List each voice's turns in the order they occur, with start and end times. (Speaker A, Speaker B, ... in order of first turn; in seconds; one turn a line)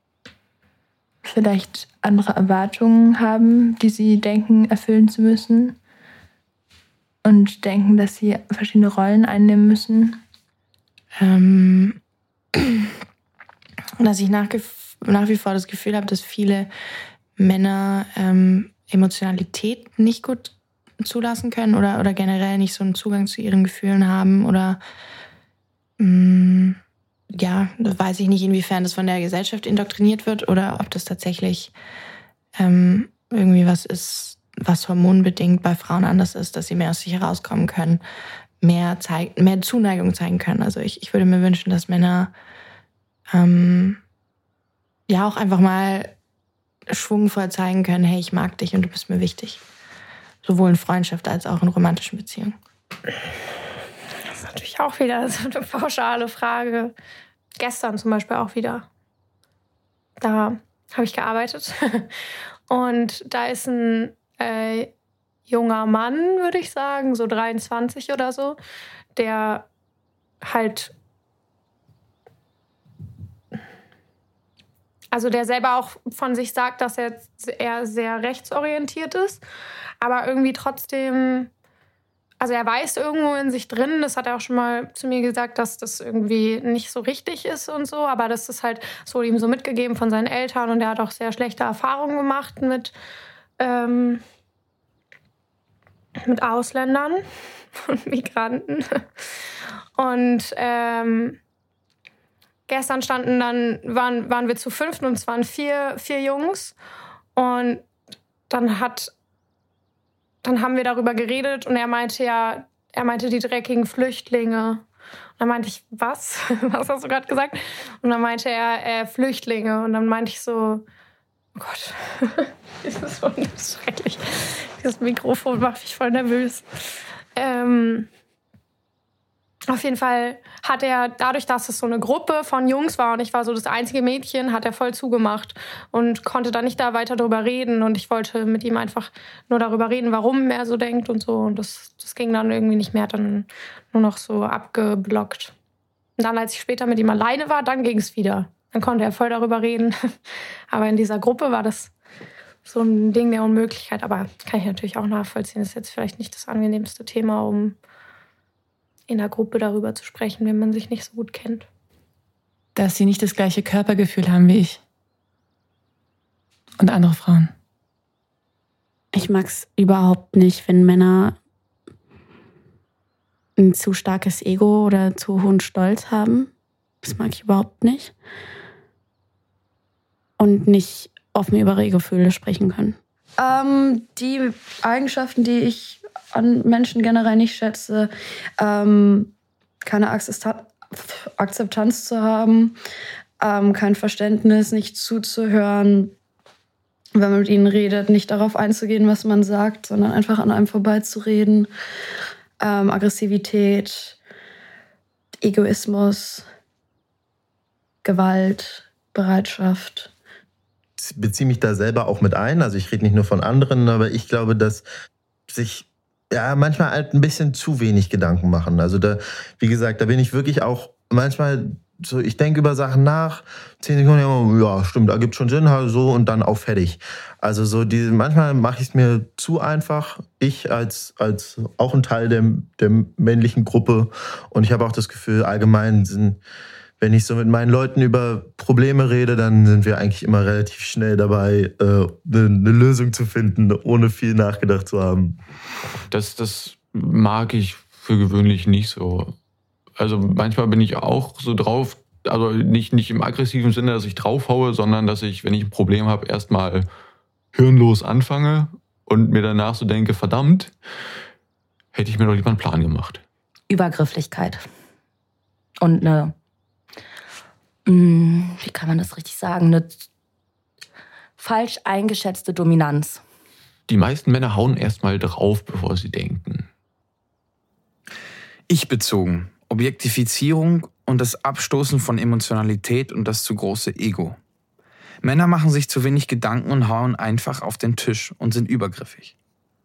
Speaker A: 1.2-5.8
Speaker A: 7.2-10.2
Speaker B: 11.2-12.0
Speaker B: 12.6-12.9
Speaker B: 14.0-16.7
Speaker B: 17.4-24.8
Speaker B: 26.0-26.8
Speaker B: 27.3-31.8
Speaker B: 32.5-38.0
Speaker B: 38.6-42.3
Speaker B: 43.3-44.0
Speaker B: 45.1-46.1
Speaker B: 46.9-49.6
Speaker B: 50.5-52.5
Speaker C: 54.2-57.0
Speaker C: 57.6-58.9
Speaker C: 60.2-62.2
Speaker C: 62.7-64.9
Speaker C: 65.5-68.6
Speaker C: 69.2-69.7
Speaker C: 70.4-71.0
Speaker C: 75.1-79.5
Speaker C: 80.0-81.5
Speaker C: 82.4-93.0
Speaker C: 93.6-94.2
Speaker C: 96.2-97.2
Speaker C: 97.7-99.3
Speaker C: 100.0-101.4
Speaker C: 102.7-106.8
Speaker C: 107.4-107.8
Speaker C: 108.5-109.1
Speaker C: 110.4-114.8
Speaker C: 115.4-120.9
Speaker C: 121.6-126.7
Speaker C: 127.4-128.1
Speaker C: 129.7-145.5
Speaker C: 146.2-151.9
Speaker C: 152.7-157.8
Speaker C: 159.1-161.7
Speaker D: 162.8-164.8
Speaker D: 166.8-167.5
Speaker E: 169.1-171.4
Speaker E: 173.6-176.5
Speaker E: 177.0-178.1
Speaker E: 180.4-183.0
Speaker F: 183.4-192.8
Speaker F: 193.4-196.1
Speaker F: 197.2-201.7
Speaker F: 202.6-204.2
Speaker F: 205.4-206.4
Speaker F: 208.0-210.1
Speaker G: 211.0-214.9
Speaker G: 215.5-236.4
Speaker G: 237.0-245.4
Speaker H: 246.1-249.4
Speaker H: 250.0-256.9
Speaker H: 257.5-260.8
Speaker H: 261.9-263.2
Speaker I: 263.7-264.6
Speaker I: 265.8-266.3
Speaker I: 267.9-270.1
Speaker I: 271.4-273.2
Speaker H: 273.9-276.7
Speaker J: 278.7-284.4
Speaker J: 285.2-289.3